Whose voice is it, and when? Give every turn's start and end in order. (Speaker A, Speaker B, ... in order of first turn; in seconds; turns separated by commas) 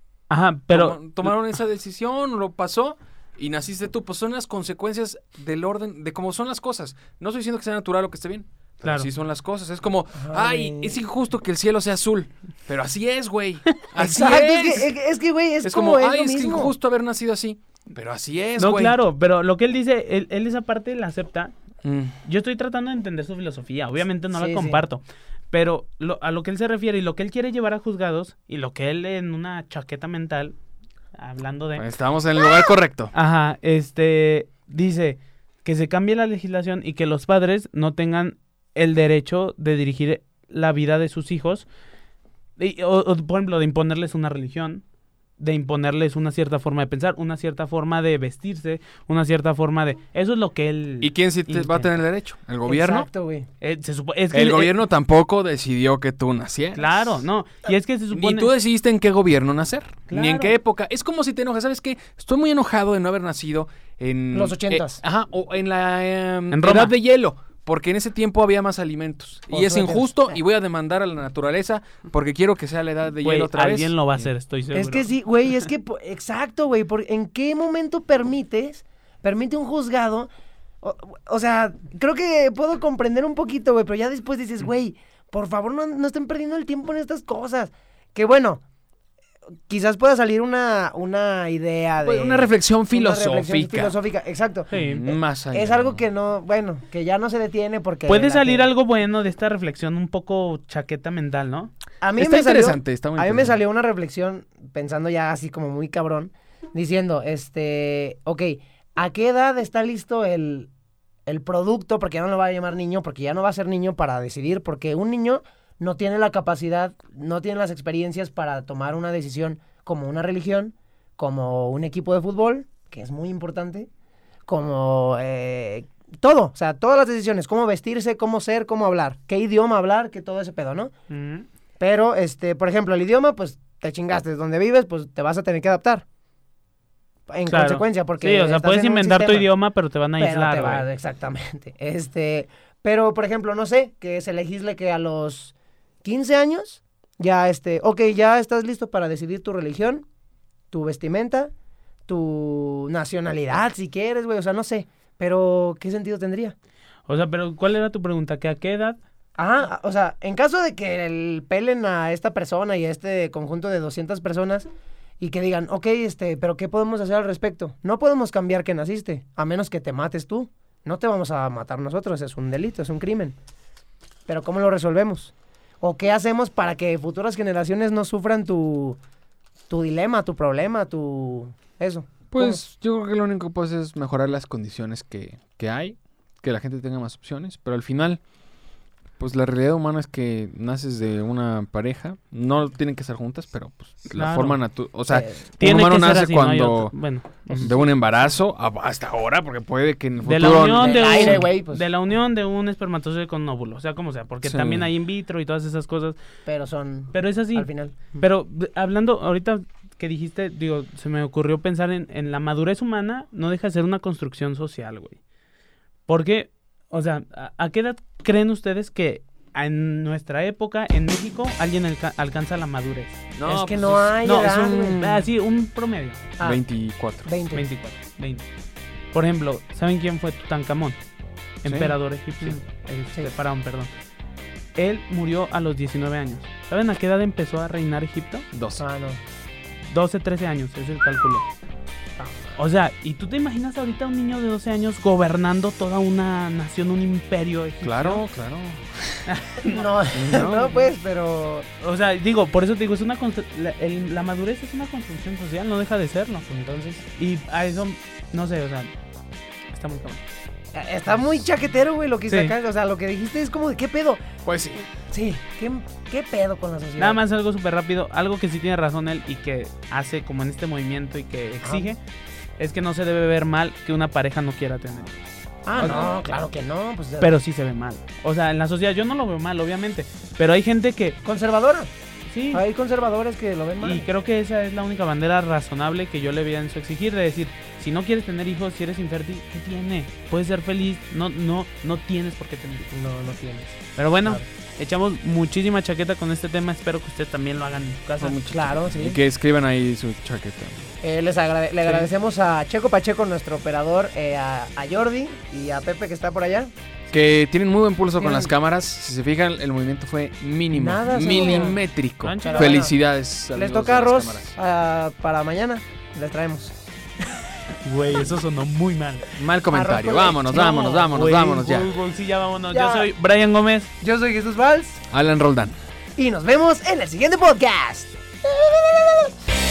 Speaker A: 0.3-1.0, Speaker B: 0.7-14.9, Speaker A: 8.8-9.1, Speaker C: 10.1-10.9, Speaker C: 13.9-16.7, Speaker B: 15.6-19.0, Speaker A: 18.6-21.5, Speaker B: 21.8-22.2, Speaker A: 22.2-30.6, Speaker C: 24.3-24.8, Speaker A: 31.2-31.9, Speaker B: 31.8-33.1, Speaker A: 33.1-41.7, Speaker A: 42.6-44.8, Speaker A: 45.4-51.9, Speaker B: 51.0-53.1, Speaker C: 52.6-53.5, Speaker A: 53.6-54.7, Speaker B: 54.3-57.2, Speaker A: 56.7-58.5, Speaker B: 58.1-74.2, Speaker A: 60.1-60.5, Speaker C: 64.3-65.0, Speaker A: 66.5-66.9, Speaker C: 69.5-70.3, Speaker A: 73.2-75.1, Speaker C: 74.7-80.3, Speaker C: 80.8-88.6, Speaker C: 89.7-98.7, Speaker B: 92.0-93.9, Speaker A: 94.7-95.0, Speaker B: 94.7-96.0, Speaker A: 98.1-101.7, Speaker C: 102.0-110.7, Speaker B: 102.2-103.6, Speaker C: 111.2-123.9, Speaker C: 124.5-130.9, Speaker A: 131.1-131.5, Speaker C: 131.8-136.0, Speaker C: 137.3-139.5, Speaker A: 137.5-140.8, Speaker C: 140.2-145.5, Speaker C: 146.0-150.0, Speaker C: 150.7-151.5, Speaker C: 152.1-156.5, Speaker A: 157.1-159.0, Speaker C: 159.3-164.7, Speaker C: 165.2-173.3, Speaker C: 174.3-179.0, Speaker C: 179.7-182.6, Speaker B: 182.3-188.2, Speaker B: 189.2-196.9, Speaker A: 194.1-194.6, Speaker C: 195.1-195.4, Speaker A: 195.6-197.7, Speaker B: 197.6-201.5, Speaker A: 200.2-206.2, Speaker C: 200.7-201.8, Speaker B: 204.4-204.9, Speaker C: 206.4-208.2, Speaker A: 207.1-215.2, Speaker A: 216.1-223.2, Speaker B: 223.3-225.2, Speaker C: 223.4-225.0, Speaker A: 224.2-226.2, Speaker B: 226.4-227.3, Speaker C: 227.2-227.7, Speaker A: 227.5-228.5, Speaker A: 229.1-231.0, Speaker A: 231.6-233.9, Speaker B: 231.6-231.9, Speaker A: 234.8-238.4, Speaker B: 238.5-238.8, Speaker C: 238.8-239.2, Speaker A: 239.9-241.4, Speaker C: 242.2-242.6, Speaker A: 242.6-248.2, Speaker B: 247.8-249.3, Speaker A: 249.2-249.9, Speaker C: 249.6-251.7, Speaker B: 250.1-250.8, Speaker A: 251.8-258.9, Speaker C: 256.5-256.8, Speaker A: 259.7-260.2, Speaker C: 260.7-264.2, Speaker B: 264.4-264.9, Speaker C: 265.1-267.2, Speaker A: 267.0-272.0, Speaker C: 271.6-271.9, Speaker A: 272.6-275.1, Speaker C: 275.6-277.3, Speaker A: 275.8-276.1, Speaker A: 277.2-281.2, Speaker C: 281.2-281.9, Speaker A: 282.3-282.6, Speaker C: 282.5-284.1, Speaker A: 283.8-292.9, Speaker C: 292.9-294.4, Speaker A: 293.9-298.4, Speaker B: 298.2-300.9, Speaker C: 298.5-299.2, Speaker C: 301.0-306.7, Speaker B: 307.1-314.5, Speaker C: 308.2-308.5, Speaker C: 310.7-311.8, Speaker A: 312.2-312.9, Speaker C: 312.4-312.9, Speaker C: 313.5-316.7, Speaker A: 317.8-319.3, Speaker B: 319.4-321.9, Speaker C: 319.7-321.1, Speaker A: 321.1-323.9, Speaker C: 322.7-323.1, Speaker C: 324.0-325.0, Speaker B: 325.1-325.8, Speaker C: 326.2-329.3